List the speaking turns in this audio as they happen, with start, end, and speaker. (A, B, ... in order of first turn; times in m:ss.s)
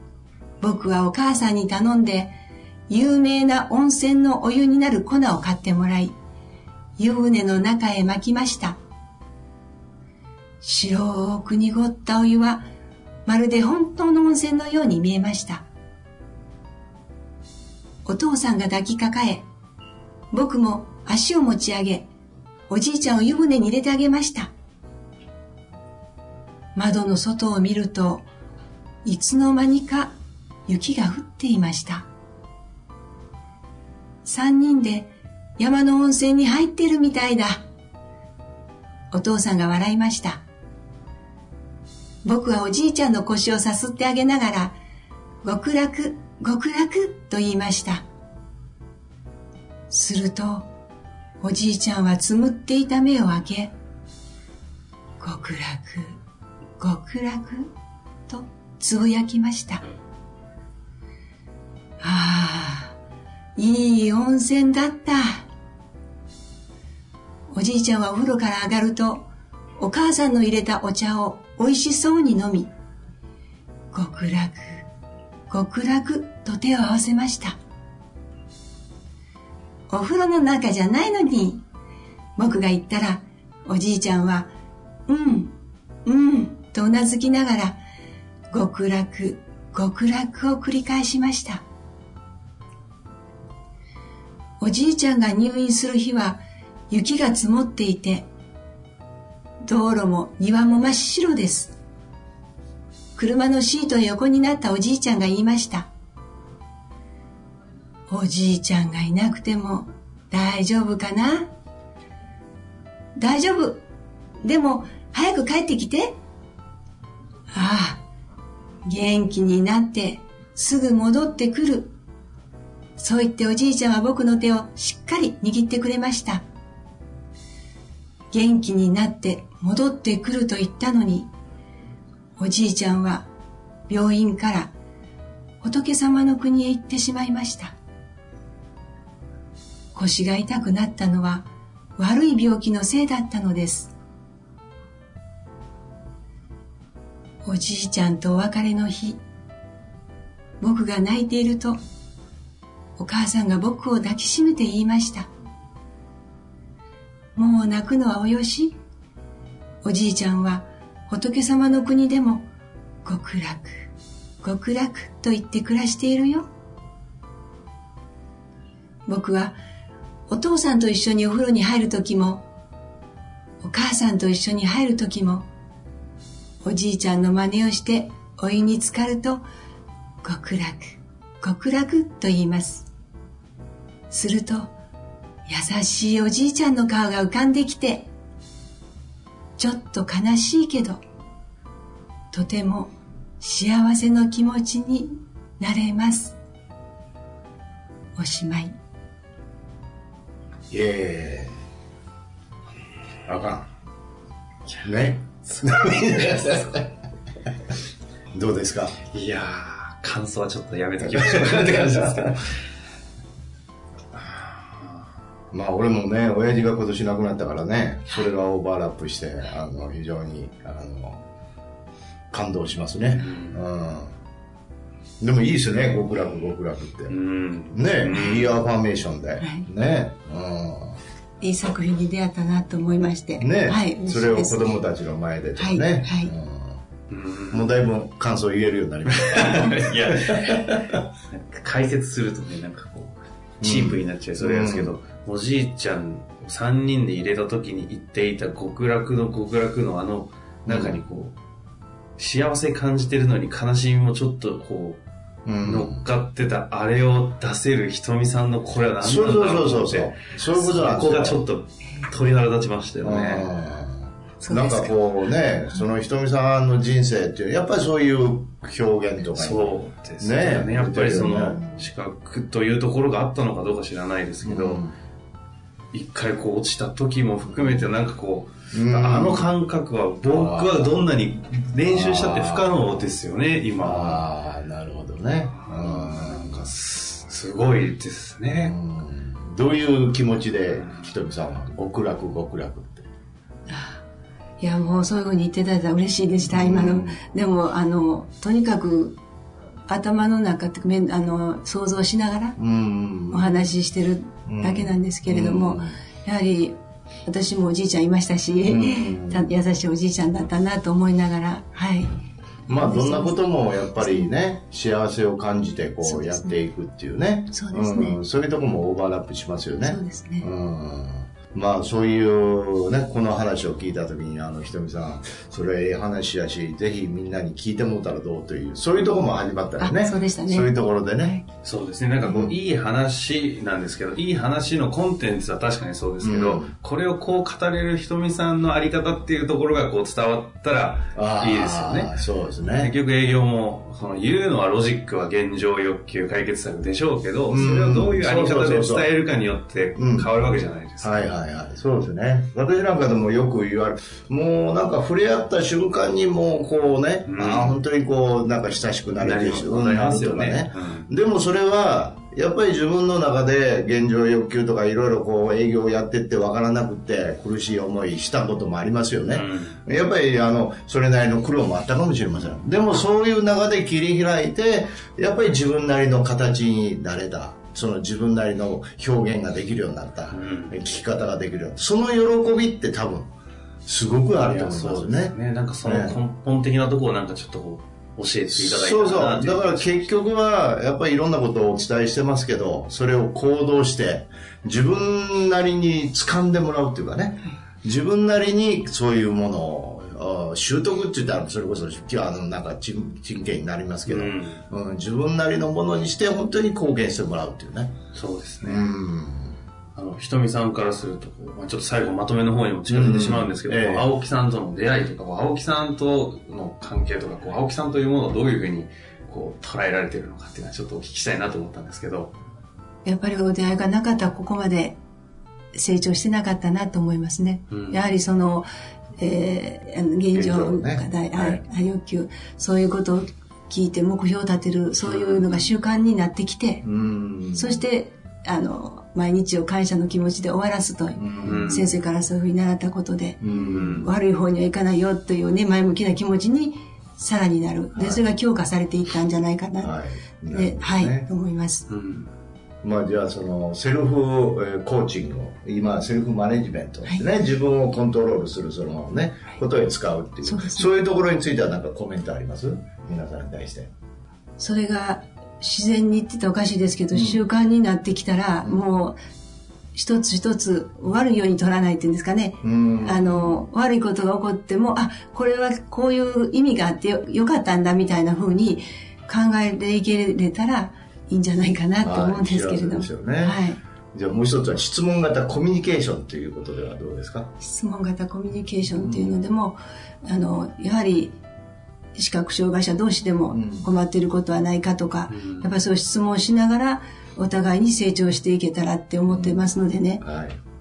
0:00.6-0:02.4 A
0:02.9-0:06.1 A
0:07.0-0:08.8 A
0:10.6-0:12.6 A
0:13.2-0:15.6 A
0:18.0-0:19.4 A
0:20.3-0:22.1 A
0:22.7-0:24.5 A
0:26.8-0:28.2 A
0:29.0-0:30.1 A
0:30.7-0:32.0 A
0:34.2-0:37.6 A
0:39.1-0:40.4 A
0:42.2-0:44.8 A
0:45.4-0:48.0 A
0:49.9-0:50.6 A
0:51.4-0:53.7 A
0:55.2-0:56.2 A
0:56.8-0:57.7 A
0:58.3-0:59.8 A
1:02.0-1:02.9 A
1:03.6-1:05.5 A
1:07.5-1:09.2 A
1:09.8-1:12.7 A
1:13.9-1:14.8 A
1:15.5-1:17.6 A
1:19.9-1:21.6 A
1:22.4-1:24.5 A
1:25.1-1:25.5 A
1:26.0-1:27.8 A
1:28.5-1:31.6 A
1:34.6-1:38.2 A
1:39.6-1:41.7 A
1:43.2-1:45.9 A
1:48.1-1:51.5 A
1:53.2-1:53.8 A
1:54.4-1:56.2 A
1:57.5-1:58.0 A
1:58.9-2:01.9 A
2:03.0-2:06.4 A
2:08.3-2:11.3 A
2:12.4-2:13.3 A
2:13.9-2:14.7 A
2:15.6-2:17.8 A
2:20.0-2:23.9 A
2:27.4-2:29.2 A
2:30.6-2:31.8 A
2:33.0-2:35.3 A
2:37.4-2:38.8 A
2:39.8-2:42.5 A
2:43.0-2:43.9 A
2:44.4-2:46.5 A
2:49.1-2:49.6 A
2:50.3-2:52.4 A
2:53.6-2:55.4 A
2:56.6-2:59.4 A
3:00.2-3:02.9 A
3:04.1-3:04.7 A
3:05.5-3:08.1 A
3:09.6-3:11.0 A
3:12.3-3:16.4 A
3:18.2-3:18.8 A
3:20.7-3:21.6 B
3:23.2-3:23.7 B
3:24.8-3:26.9 B
3:25.5-3:26.7 C
3:28.3-3:29.0 B
3:29.1-3:32.5 C
3:31.2-3:32.3 B
3:34.2-3:34.8 C
3:35.5-3:41.2 B
3:42.3-3:44.1 B
3:43.2-3:43.6 C
3:45.2-3:47.2 B
3:47.1-3:48.6 C
3:47.7-3:51.0 B
3:49.4-3:49.7 A
3:51.4-3:54.8 A
3:53.4-3:56.8 B
3:55.6-3:56.3 A
3:57.1-3:57.7 C
3:57.5-4:01.0 B
3:59.1-4:11.3 C
4:03.6-4:04.9 B
4:10.7-4:11.0 B
4:12.2-4:15.0 C
4:15.4-4:16.0 B
4:15.6-4:23.5 C
4:19.0-4:21.4 B
4:23.0-4:29.7 B
4:24.4-4:24.9 A
4:29.3-4:34.8 C
4:30.2-4:31.7 B
4:34.4-4:34.9 B
4:35.9-4:44.2 C
4:37.6-4:37.8 B
4:38.7-4:39.5 B
4:40.3-4:40.9 B
4:41.9-4:42.8 B
4:43.8-4:46.7 B
4:45.7-4:48.8 C
4:48.6-4:53.1 B
4:53.7-4:54.0 A
4:54.6-4:59.2 A
4:56.5-4:57.2 B
4:59.9-5:02.6 A
5:02.6-5:03.5 B
5:03.3-5:12.2 A
5:04.5-5:06.0 B
5:08.7-5:09.5 B
5:12.7-5:13.4 A
5:12.7-5:31.3 B
5:14.0-5:14.3 A
5:16.0-5:16.6 A
5:17.5-5:18.2 A
5:19.9-5:20.5 A
5:29.8-5:31.4 A
5:31.6-5:42.1 C
5:32.2-5:32.5 B
5:36.2-5:36.7 B
5:41.2-5:42.9 B
5:42.8-5:51.2 C
5:47.5-5:49.1 B
5:50.0-5:50.3 B
5:51.0-6:23.3 B
5:57.3-5:57.8 C
5:59.2-6:01.1 C
6:09.3-6:09.8 C
6:20.3-6:20.8 C
6:23.8-6:26.2 B
6:24.4-6:30.1 C
6:28.5-6:48.0 B
6:44.1-6:44.6 C
6:48.1-6:48.9 C
6:48.6-6:49.6 B
6:50.0-7:02.3 C
6:52.9-6:54.1 B
7:03.0-7:05.0 A
7:05.7-7:08.7 A
7:07.7-7:08.0 C
7:09.2-7:16.8 A
7:10.3-7:11.6 B
7:15.0-7:15.4 C
7:16.8-7:17.8 B
7:17.5-7:29.9 A
7:21.2-7:21.7 B
7:21.4-7:22.0 C
7:23.4-7:24.1 B
7:23.5-7:24.1 C
7:28.0-7:28.2 B
7:29.8-7:31.3 B
7:30.5-7:31.9 A
7:31.9-7:32.3 C
7:32.8-7:43.9 B
7:40.4-7:40.9 A
7:44.6-7:49.2 A
7:47.1-7:47.4 B
7:50.0-8:03.8 A
7:52.6-7:53.6 B
8:02.0-8:03.6 B
8:04.1-8:07.5 B
8:07.6-8:11.4 A
8:08.9-8:09.4 B
8:12.2-8:20.2 A
8:13.5-8:13.9 B
8:15.3-8:15.7 C
8:19.3-8:19.7 B
8:20.2-8:20.6 B